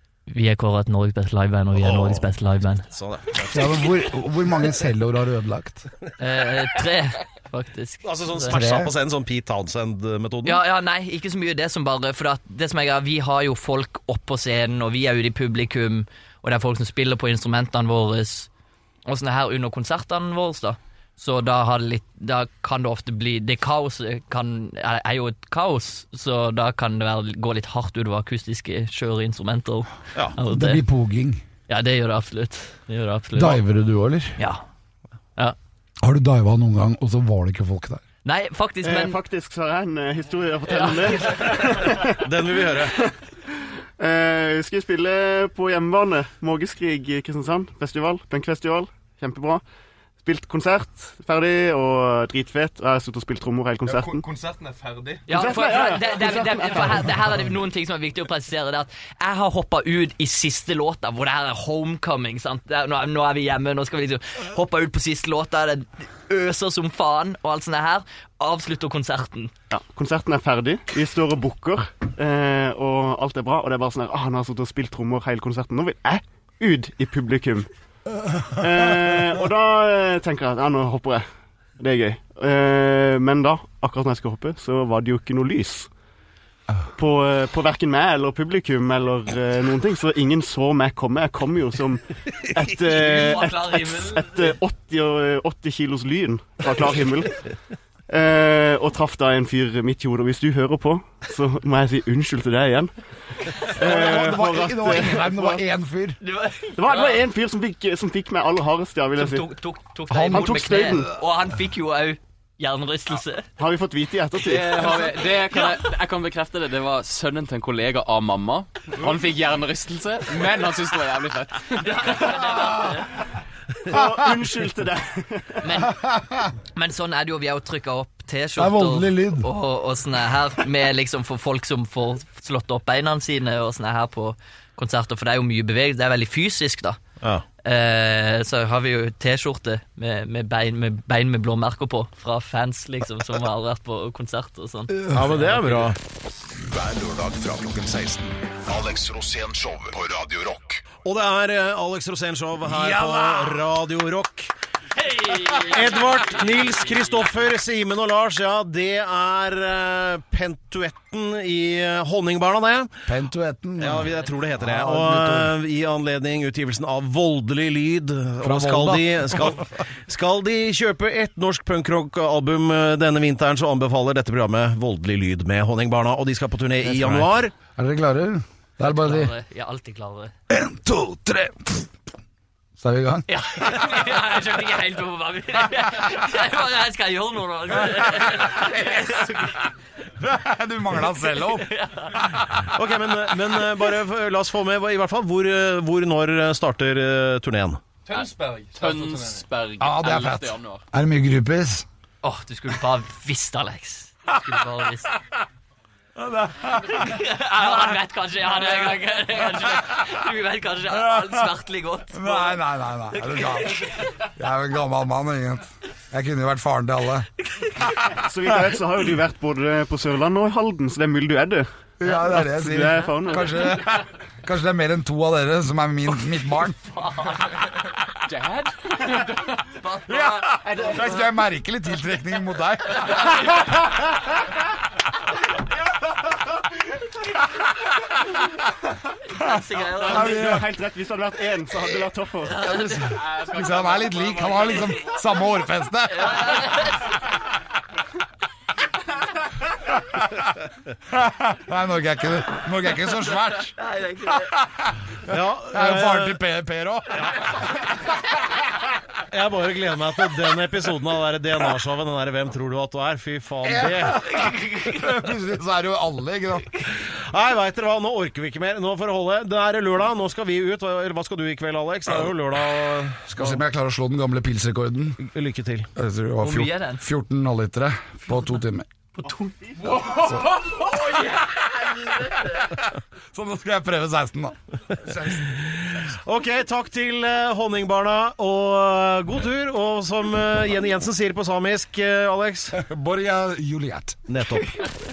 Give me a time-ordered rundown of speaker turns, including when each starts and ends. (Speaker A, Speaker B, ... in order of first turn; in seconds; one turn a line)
Speaker A: 0.3-2.8
Speaker B: 1.7-2.2
Speaker B: 2.9-3.7
Speaker C: 3.5-5.9
Speaker A: 6.2-8.5
Speaker B: 8.0-10.6
Speaker C: 8.4-8.9
Speaker A: 10.4-18.5
Speaker A: 19.1-30.8
Speaker C: 30.4-31.4
Speaker A: 31.7-33.6
Speaker C: 33.3-34.4
Speaker A: 34.4-34.6
Speaker C: 36.0-38.0
Speaker A: 38.2-39.2
Speaker D: 38.8-42.2
Speaker A: 40.7-41.4
Speaker B: 42.0-43.0
Speaker D: 44.0-49.6
Speaker D: 50.2-54.2
Speaker E: 53.8-56.8
Speaker A: 55.3-69.5
Speaker D: 55.3-57.1
Speaker D: 69.7-77.7
Speaker D: 78.5-81.2
Speaker D: 81.8-85.9
Speaker D: 87.0-97.4
Speaker A: 92.9-94.5
Speaker D: 98.1-102.9
Speaker D: 103.5-105.6
Speaker C: 103.7-106.2
Speaker A: 106.2-107.1
Speaker D: 106.8-109.5
Speaker A: 109.2-113.5
Speaker C: 110.1-111.1
Speaker D: 110.2-111.1
Speaker D: 113.6-115.2
Speaker F: 114.4-122.4
Speaker A: 115.3-115.8
Speaker A: 121.8-123.3
Speaker D: 123.8-125.7
Speaker A: 125.6-126.0
Speaker C: 125.8-126.5
Speaker A: 126.7-137.0
Speaker C: 128.6-129.5
Speaker A: 137.6-145.9
Speaker C: 144.9-145.4
Speaker B: 145.1-146.0
Speaker G: 146.6-150.8
Speaker B: 151.0-154.5
Speaker C: 152.6-153.6
Speaker A: 155.1-156.8
Speaker B: 155.5-162.9
Speaker C: 163.1-165.5
Speaker B: 163.8-177.5
Speaker C: 168.4-169.6
Speaker C: 177.8-179.3
Speaker A: 178.9-180.3
Speaker C: 180.5-181.9
Speaker C: 182.8-183.2
Speaker A: 183.3-189.6
Speaker C: 187.9-189.1
Speaker C: 190.2-191.7
Speaker A: 191.7-192.3
Speaker B: 192.6-197.8
Speaker E: 198.1-199.5
Speaker F: 198.1-200.8
Speaker C: 199.8-201.8
Speaker A: 202.2-205.2
Speaker C: 206.2-207.2
Speaker A: 206.9-214.1
Speaker C: 210.9-211.5
Speaker C: 212.1-217.3
Speaker A: 217.4-218.1
Speaker D: 218.1-221.7
Speaker C: 222.0-226.8
Speaker D: 222.3-223.7
Speaker A: 226.9-227.6
Speaker F: 228.3-229.2
Speaker A: 229.6-231.2
Speaker C: 230.1-233.6
Speaker A: 239.2-240.6
Speaker C: 239.4-240.7
Speaker D: 240.0-242.7
Speaker A: 242.4-243.2
Speaker C: 242.6-246.8
Speaker F: 243.1-245.0
Speaker A: 246.1-247.2
Speaker C: 249.8-250.4
Speaker C: 251.1-253.7
Speaker A: 253.8-254.5
Speaker C: 254.3-258.0
Speaker B: 255.3-256.4
Speaker B: 257.1-257.4
Speaker B: 259.3-264.3
Speaker C: 263.6-266.7
Speaker A: 264.4-265.0
Speaker B: 267.3-273.6
Speaker C: 273.2-275.2
Speaker B: 275.2-275.9
Speaker C: 275.9-278.9
Speaker A: 276.4-277.1
Speaker A: 279.2-281.5
Speaker C: 279.8-285.5
Speaker B: 285.8-292.8
Speaker C: 292.7-294.2
Speaker B: 294.3-294.8